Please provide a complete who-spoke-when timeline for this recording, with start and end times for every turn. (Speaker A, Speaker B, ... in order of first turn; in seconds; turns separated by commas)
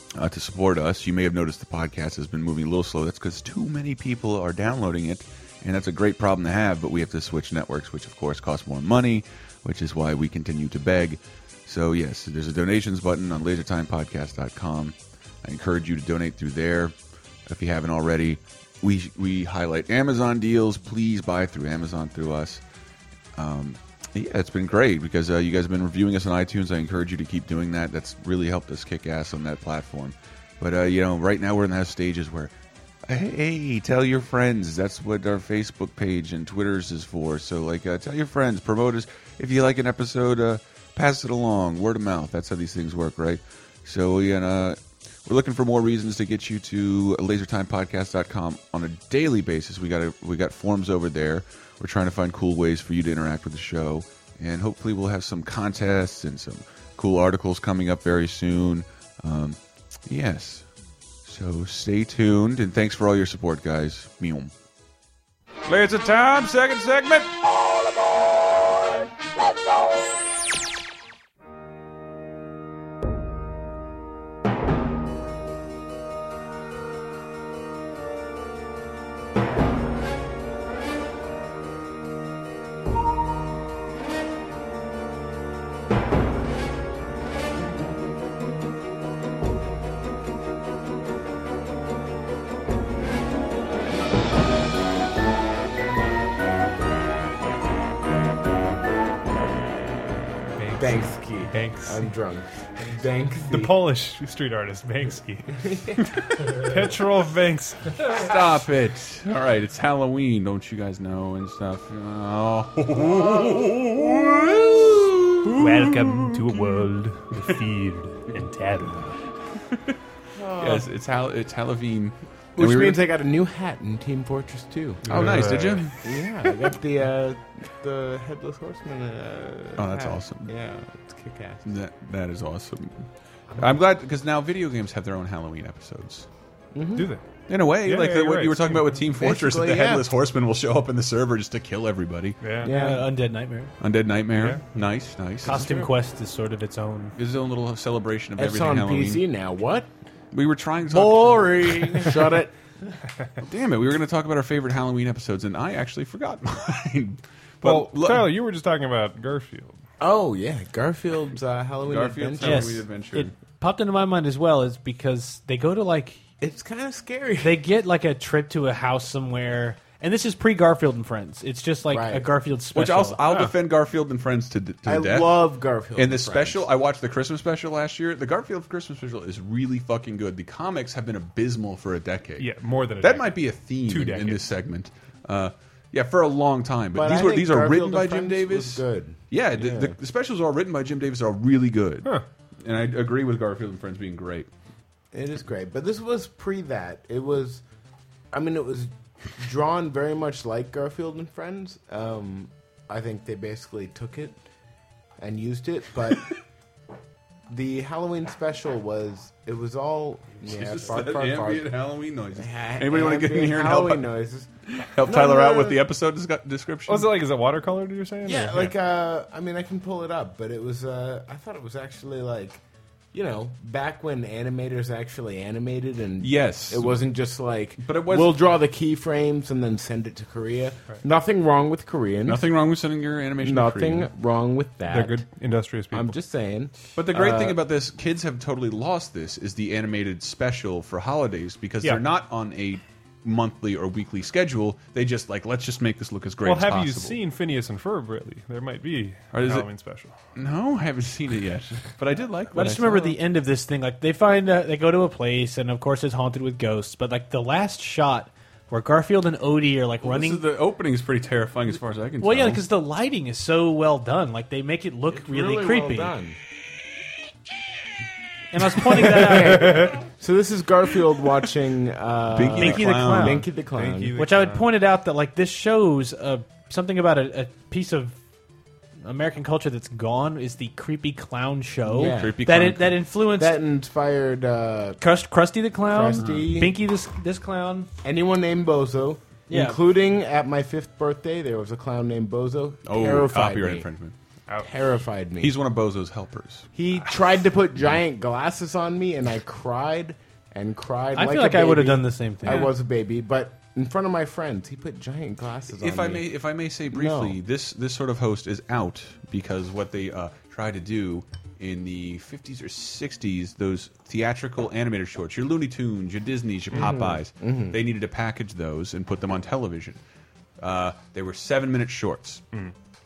Speaker A: 0.1-16.9, Speaker A: 17.5-22.6, Speaker A: 23.4-32.5, Speaker A: 33.1-60.7, Speaker A: 61.2-64.5, Speaker A: 65.7-67.3, Speaker B: 100.6-102.1, Speaker C: 100.8-103.8, Speaker B: 103.5-105.5, Speaker C: 105.6-106.6, Speaker B: 106.6-108.2, Speaker A: 108.1-117.6, Speaker B: 115.7-118.8, Speaker A: 119.7-120.0, Speaker C: 120.4-120.9, Speaker A: 120.5-123.0, Speaker C: 122.6-131.7, Speaker B: 125.0-125.9, Speaker A: 125.1-125.9, Speaker A: 129.8-130.5, Speaker A: 131.7-136.3, Speaker C: 136.7-137.1, Speaker B: 136.9-137.2, Speaker A: 137.5-142.4, Speaker B: 137.8-139.0, Speaker C: 139.1-140.1, Speaker B: 142.4-142.7, Speaker C: 142.6-143.1, Speaker D: 142.6-143.7, Speaker A: 143.8-145.7, Speaker B: 144.4-144.6, Speaker D: 145.4-147.2, Speaker C: 145.5-145.9, Speaker A: 147.2-149.2, Speaker C: 148.4-149.9, Speaker A: 150.3-152.1, Speaker C: 150.9-152.5, Speaker D: 151.2-151.9, Speaker A: 153.4-158.3, Speaker B: 157.6-159.8, Speaker C: 160.0-162.8, Speaker A: 161.8-163.3, Speaker D: 162.4-166.2, Speaker C: 166.4-167.6, Speaker D: 167.4-173.2, Speaker C: 171.9-172.3, Speaker A: 172.7-194.5, Speaker B: 173.2-173.5, Speaker C: 174.9-176.7, Speaker B: 182.4-184.5, Speaker C: 186.9-190.0, Speaker C: 195.1-197.6, Speaker C: 198.3-204.4, Speaker C: 205.2-206.4, Speaker C: 207.5-211.8, Speaker A: 210.4-214.1, Speaker C: 212.3-214.5, Speaker A: 214.8-217.1, Speaker C: 215.0-215.8, Speaker B: 216.9-218.7, Speaker C: 218.2-222.6, Speaker C: 223.1-232.5, Speaker A: 226.2-227.1, Speaker A: 227.8-228.5, Speaker A: 232.2-234.1, Speaker C: 233.4-235.2, Speaker B: 234.9-236.2, Speaker C: 235.9-237.6, Speaker A: 236.9-247.2, Speaker B: 246.4-250.1, Speaker A: 249.3-249.7, Speaker A: 250.3-253.2, Speaker D: 252.5-260.4, Speaker A: 260.0-262.6, Speaker D: 262.2-266.1, Speaker C: 265.1-266.4, Speaker D: 268.5-269.9, Speaker C: 268.9-274.1, Speaker B: 269.4-269.9, Speaker A: 272.3-273.5, Speaker D: 272.5-273.4, Speaker B: 273.7-274.7, Speaker D: 274.2-278.1, Speaker D: 279.0-283.6, Speaker C: 281.9-282.5, Speaker A: 281.9-283.0, Speaker C: 283.2-285.0, Speaker D: 285.0-287.9, Speaker C: 285.8-286.8, Speaker A: 286.2-286.5, Speaker C: 288.0-293.9, Speaker D: 289.5-289.8, Speaker A: 292.9-294.1, Speaker C: 294.6-295.6, Speaker A: 295.4-296.7, Speaker C: 296.8-306.3, Speaker D: 301.1-302.7, Speaker A: 305.8-320.0, Speaker C: 306.9-307.4, Speaker C: 316.7-317.8, Speaker A: 320.6-322.4